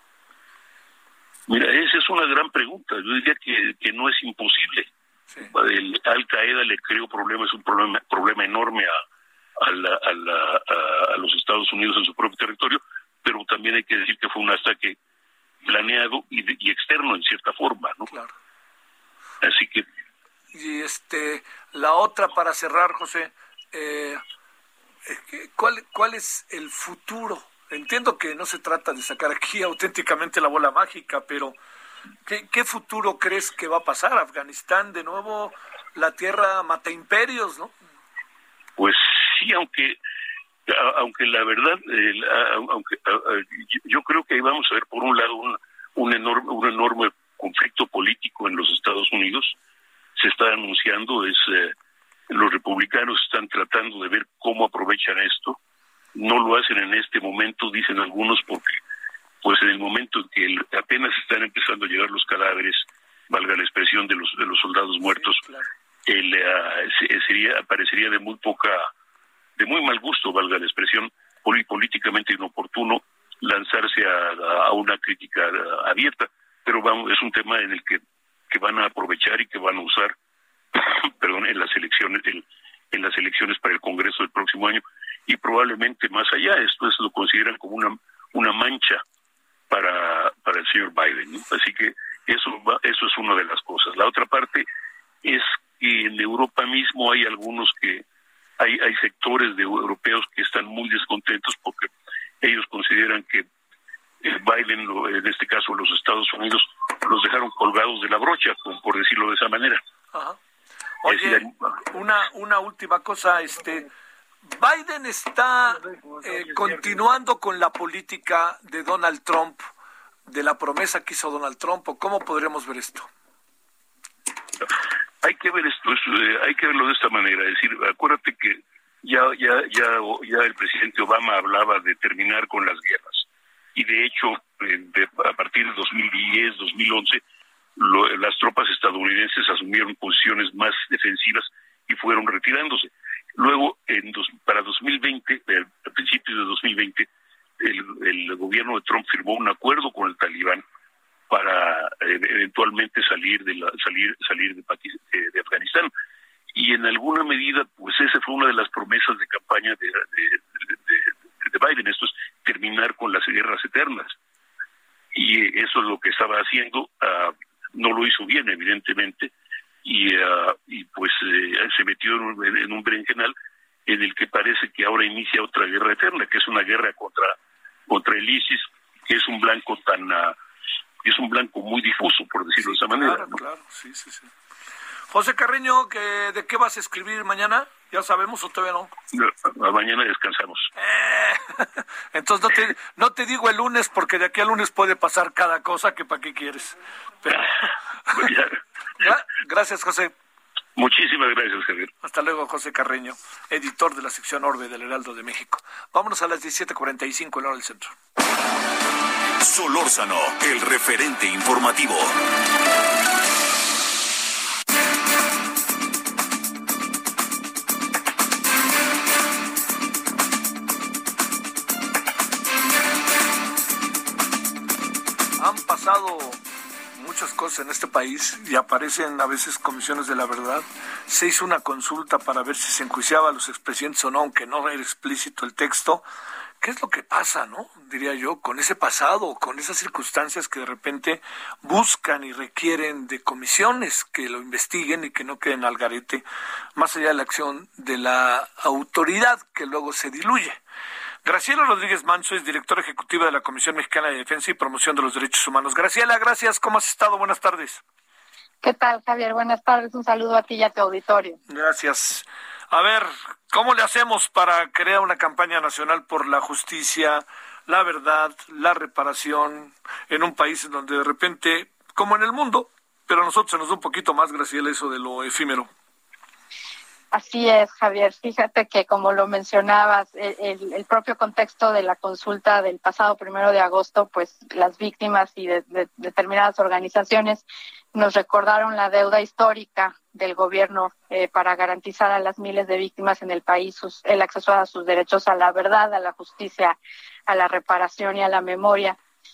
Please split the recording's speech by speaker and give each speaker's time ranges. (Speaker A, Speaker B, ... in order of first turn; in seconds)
Speaker A: 1.5-4.9, 5.5-9.0, 9.6-15.0, 15.6-18.1, 19.4-19.8, 38.8-40.0, 40.7-49.5, 50.2-51.7, 52.3-55.6, 56.1-58.8, 59.4-65.4, 66.0-68.9, 69.5-80.1, 80.7-89.0, 89.7-94.7, 95.2-98.0, 98.6-101.9, 102.4-103.5, 104.2-109.8, 111.1-111.5, 125.2-137.2, 137.8-147.1, 147.6-150.6, 151.3-155.9, 156.5-164.1, 165.1-169.3, 169.8-173.3, 173.9-177.4, 177.9-180.4, 181.0-183.3, 189.1-190.7, 198.1-198.6, 200.7-201.9
Speaker B: 20.5-24.2, 25.1-31.6, 32.3-37.7, 65.0-65.7, 110.1-110.4, 111.0-113.9, 114.4-119.7, 120.3-123.1, 182.6-184.3, 185.1-188.9, 190.8-198.3, 199.0-200.1, 202.0-207.9, 225.4-226.4, 226.9-236.1, 236.6-246.2, 246.7-250.6, 251.2-257.8, 261.5-275.7
Speaker C: 209.4-212.2
Speaker D: 258.6-261.4, 277.1-299.0